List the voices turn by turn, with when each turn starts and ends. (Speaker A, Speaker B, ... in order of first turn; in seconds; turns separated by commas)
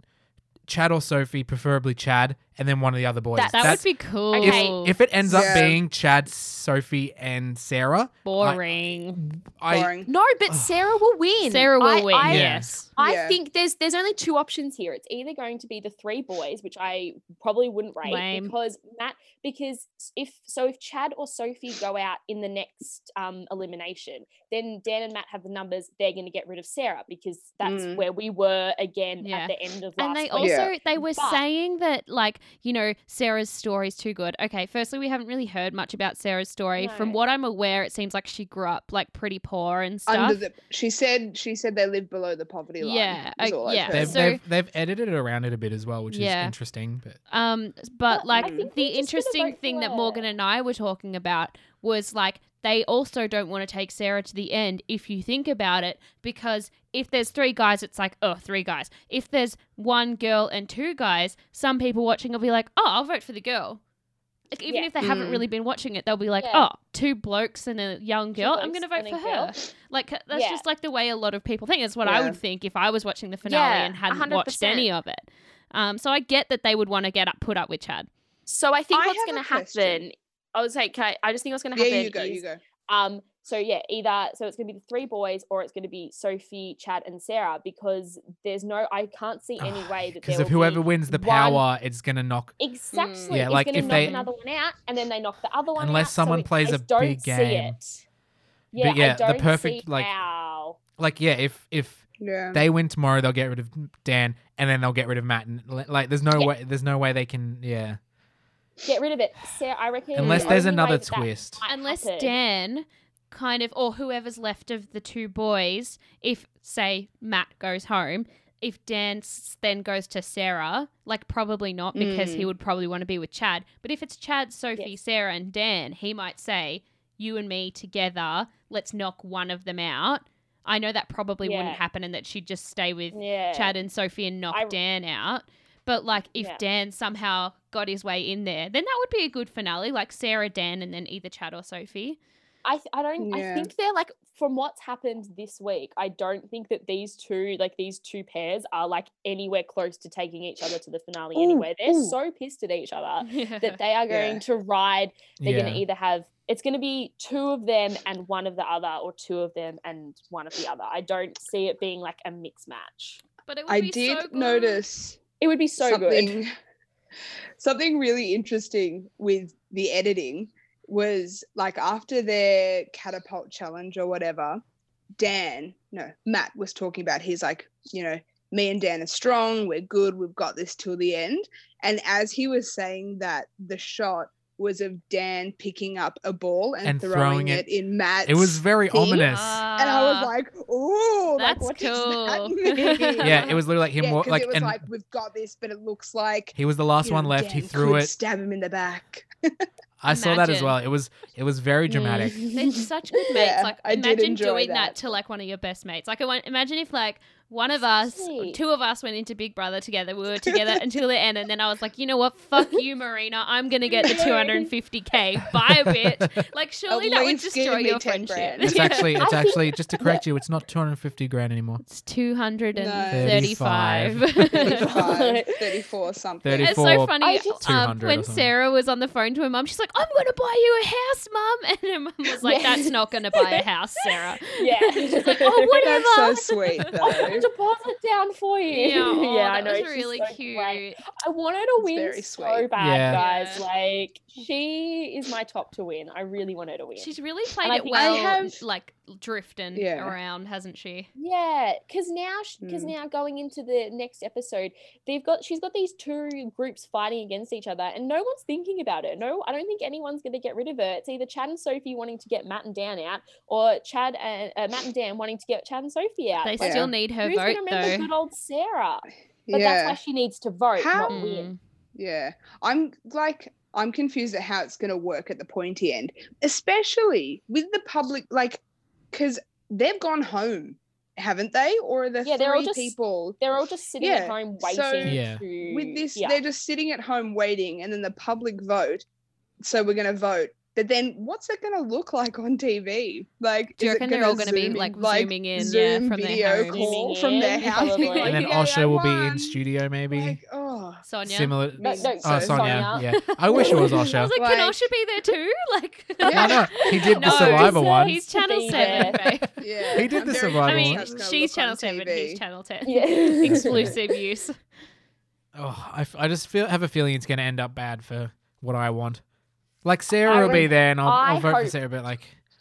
Speaker A: 0.7-3.8, Speaker B: 3.4-4.8, Speaker C: 3.5-4.9, Speaker A: 4.4-9.9, Speaker D: 5.2-5.8, Speaker C: 8.2-9.2, Speaker D: 9.7-10.1, Speaker B: 10.1-31.4, Speaker A: 10.5-10.8, Speaker C: 11.4-12.9, Speaker A: 12.2-12.7, Speaker D: 13.0-13.3, Speaker C: 18.0-18.5, Speaker D: 27.6-28.0, Speaker C: 29.2-40.4, Speaker D: 30.4-30.7, Speaker B: 36.8-37.2, Speaker D: 40.1-44.2, Speaker C: 42.8-44.4, Speaker A: 43.9-47.2, Speaker C: 46.1-46.5, Speaker C: 47.3-63.8, Speaker B: 48.1-50.3, Speaker D: 48.4-48.7, Speaker C: 64.5-78.1, Speaker D: 65.0-65.5, Speaker B: 66.4-66.7, Speaker B: 68.4-69.6, Speaker B: 70.3-70.6, Speaker D: 72.0-72.4, Speaker B: 73.5-74.9, Speaker B: 78.5-91.6, Speaker D: 78.9-80.0, Speaker D: 81.8-82.6, Speaker A: 89.6-92.5, Speaker B: 92.6-98.0, Speaker D: 92.9-94.2, Speaker A: 93.3-94.2, Speaker A: 95.8-97.8, Speaker B: 98.7-100.8, Speaker A: 98.8-100.1, Speaker A: 101.0-108.0, Speaker D: 102.2-102.6, Speaker B: 108.8-112.3, Speaker D: 110.2-110.7, Speaker A: 110.2-111.6, Speaker C: 111.7-142.2, Speaker D: 121.9-122.5, Speaker B: 131.4-131.8, Speaker B: 133.1-133.7, Speaker B: 134.5-134.8, Speaker B: 136.3-136.6, Speaker B: 142.6-163.2, Speaker D: 143.2-143.7, Speaker D: 151.3-152.1, Speaker C: 153.2-153.8, Speaker D: 154.1-154.4, Speaker A: 155.4-155.8, Speaker C: 163.5-164.8, Speaker D: 163.7-165.2, Speaker B: 165.4-166.4, Speaker D: 165.8-166.5, Speaker D: 167.6-174.6, Speaker D: 175.2-199.7, Speaker A: 186.8-187.6, Speaker A: 188.2-189.6, Speaker C: 189.1-190.3, Speaker C: 191.3-193.5, Speaker A: 193.2-194.8, Speaker A: 196.6-198.1, Speaker A: 200.0-202.5, Speaker C: 200.1-200.8, Speaker C: 201.9-219.0, Speaker D: 202.4-204.9, Speaker B: 207.9-208.6, Speaker D: 210.4-210.8, Speaker B: 214.0-214.7, Speaker A: 215.8-216.4, Speaker D: 216.9-218.9, Speaker A: 218.6-221.8, Speaker B: 218.6-220.2, Speaker C: 221.8-224.8, Speaker D: 222.7-223.6, Speaker A: 223.1-224.2, Speaker B: 224.5-225.8, Speaker D: 224.6-226.9, Speaker A: 226.4-228.5, Speaker C: 226.6-237.3, Speaker B: 227.2-227.6, Speaker B: 232.3-236.0, Speaker D: 235.8-237.4, Speaker B: 237.0-247.1, Speaker C: 238.7-241.0, Speaker D: 241.8-242.7, Speaker A: 242.8-243.2, Speaker C: 243.1-243.6, Speaker C: 247.0-251.1, Speaker B: 247.6-248.4, Speaker D: 247.9-248.6, Speaker D: 249.7-250.2, Speaker B: 251.2-271.5, Speaker D: 252.6-252.9, Speaker C: 266.4-268.1, Speaker D: 266.6-266.9, Speaker D: 269.5-270.0, Speaker D: 270.8-271.2, Speaker C: 271.1-271.6, Speaker D: 271.9-278.6, Speaker D: 279.1-283.4, Speaker B: 282.2-286.4, Speaker D: 284.0-289.0, Speaker A: 285.0-285.4, Speaker D: 289.6-299.6, Speaker C: 293.8-297.0, Speaker B: 296.7-298.6, Speaker C: 297.6-298.4, Speaker A: 298.2-300.4, Speaker D: 300.1-301.0, Speaker C: 301.1-301.6, Speaker A: 301.2-304.3, Speaker D: 301.8-302.9, Speaker B: 301.8-304.1, Speaker C: 303.2-314.6, Speaker D: 304.3-304.8, Speaker D: 306.2-306.6, Speaker A: 306.3-311.1, Speaker B: 306.8-309.2, Speaker D: 309.6-312.4, Speaker B: 312.8-313.8, Speaker A: 313.4-314.0, Speaker A: 315.5-319.2, Speaker A: 319.8-322.4, Speaker B: 320.2-321.8, Speaker D: 320.3-320.6